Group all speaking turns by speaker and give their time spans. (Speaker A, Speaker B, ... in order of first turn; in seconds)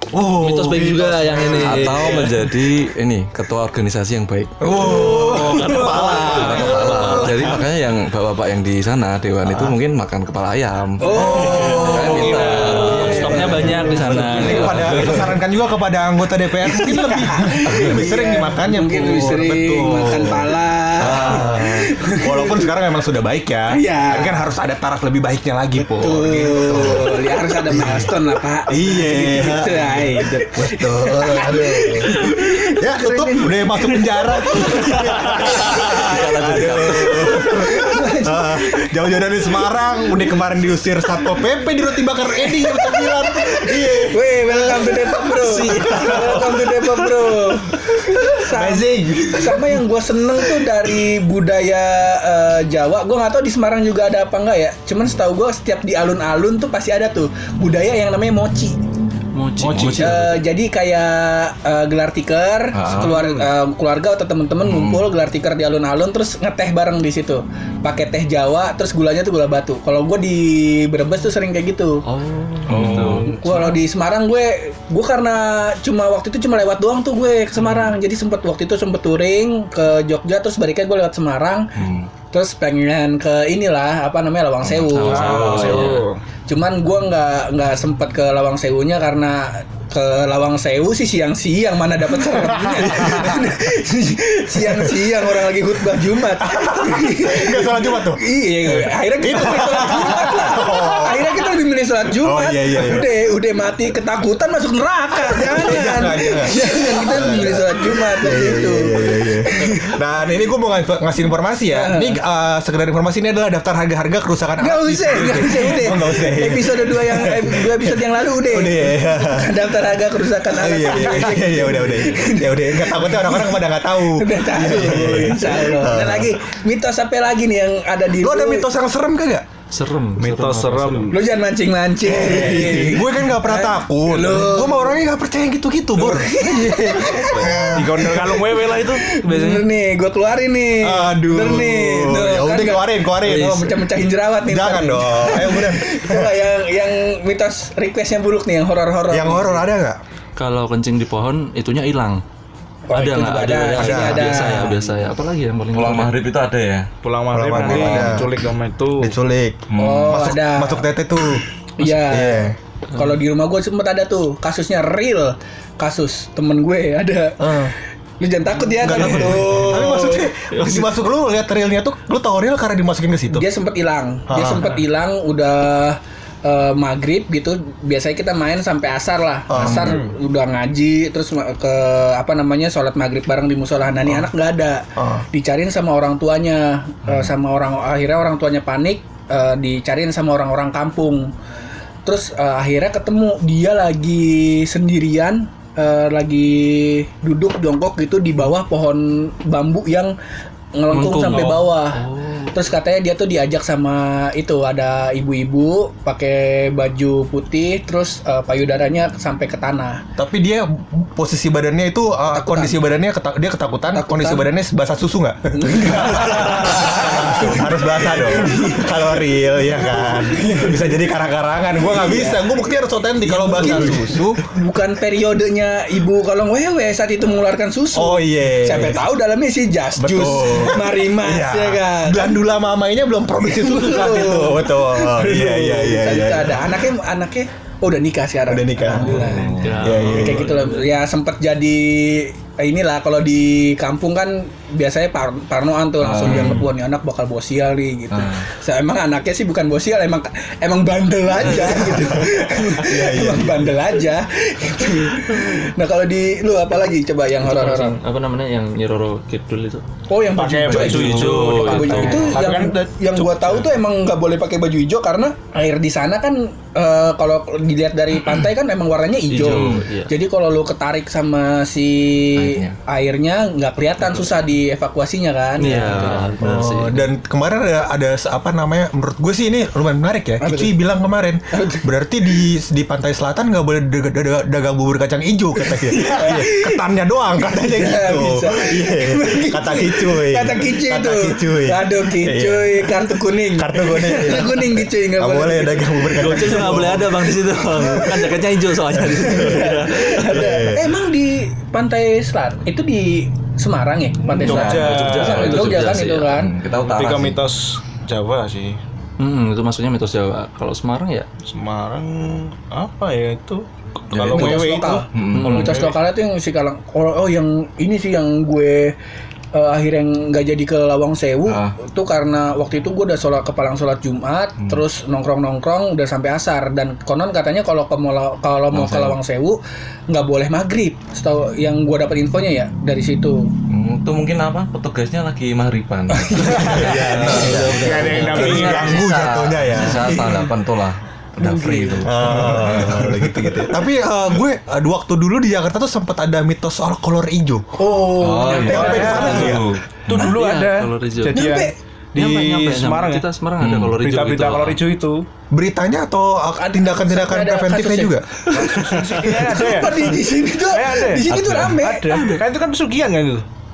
Speaker A: 0.1-2.3, 4.6-7.5, 11.1-12.6, 13.3-20.4, 21.0-28.1, 28.7-47.0, 48.0-49.8, 92.1-93.5, 94.7-95.1, 96.4-101.4, 102.2-103.1, 105.3-119.6, 120.5-126.3, 128.2-129.4, 132.0-138.5, 140.8-143.8, 144.4-146.3, 149.1-150.0, 153.7-154.5, 157.3-158.3, 159.0-162.6, 167.4-167.7, 168.8-173.5, 174.3-174.7, 179.5-180.0, 185.0-185.2, 210.2-224.4, 227.9-229.0, 230.0-236.8, 238.5-240.6, 251.5-253.7, 276.4-298.2, 300.3-300.9, 336.6-337.8, 338.4-340.2, 342.0-347.6, 348.6-349.7, 355.5-358.4
Speaker B: 0.4-2.4, 4.8-7.5, 11.3-15.1, 35.0-37.3, 45.4-46.5, 59.3-60.4, 62.9-63.5, 72.0-73.7, 77.6-77.9, 84.8-86.1, 129.7-131.1, 150.4-152.2, 152.9-156.2, 170.5-170.8, 200.9-202.6, 239.5-241.0, 251.4-251.9, 257.4-259.8, 260.7-262.4, 269.3-270.1, 275.6-277.1, 296.2-300.4, 304.7-306.4, 309.2-311.3, 315.3-315.9, 336.9-338.8, 350.2-351.6, 352.1-354.8, 362.1-362.4
Speaker C: 1.5-4.6, 5.7-15.3, 19.9-20.4, 21.0-21.9, 35.9-37.5, 59.7-60.0, 62.7-63.2, 64.6-65.0, 72.7-73.4, 81.8-82.1, 84.7-85.9, 155.7-156.9, 157.6-158.2, 159.7-160.3, 187.1-187.3, 239.0-240.1, 246.0-246.7, 248.1-248.5, 260.7-262.3, 269.4-269.9, 272.4-272.8, 275.7-276.3, 304.3-307.4, 314.1-315.9, 321.5-321.8, 328.7-329.2, 333.7-343.7, 348.2-350.4, 353.6-353.9, 361.3-361.8
Speaker D: 4.8-7.3, 11.0-14.8, 16.7-22.7, 23.7-24.4, 25.8-36.2, 37.1-38.9, 39.7-40.0, 42.3-58.8, 59.9-72.0, 72.8-81.7, 82.3-85.8, 86.5-109.9, 111.7-112.2, 114.6-128.7, 131.1-135.0, 136.0-137.8, 138.7-149.6, 152.9-154.8, 159.8-160.8, 161.8-167.6, 168.2-170.3, 173.3-191.3, 192.1-200.1, 200.8-202.0, 202.5-210.0, 212.3-212.8, 213.9-214.5, 215.5-219.2, 219.7-220.9, 221.8-222.4, 223.2-232.4, 233.4-258.0, 260.1-276.3, 280.4-280.8, 281.5-281.9, 285.7-286.8, 287.4-296.7, 299.2-306.5, 314.3-318.9, 319.5-333.5, 336.1-337.1, 338.4-338.9, 339.8-340.5, 341.4-342.5, 347.8-349.6, 351.3-351.7, 356.6-362.4
Speaker E: 59.6-60.2, 85.1-86.2, 130.2-131.2, 137.7-139.7, 157.0-159.1, 260.3-263.6, 304.3-305.6, 306.9-308.8, 311.4-315.8, 337.5-339.0, 348.7-353.3, 354.0-355.2, 358.6-363.5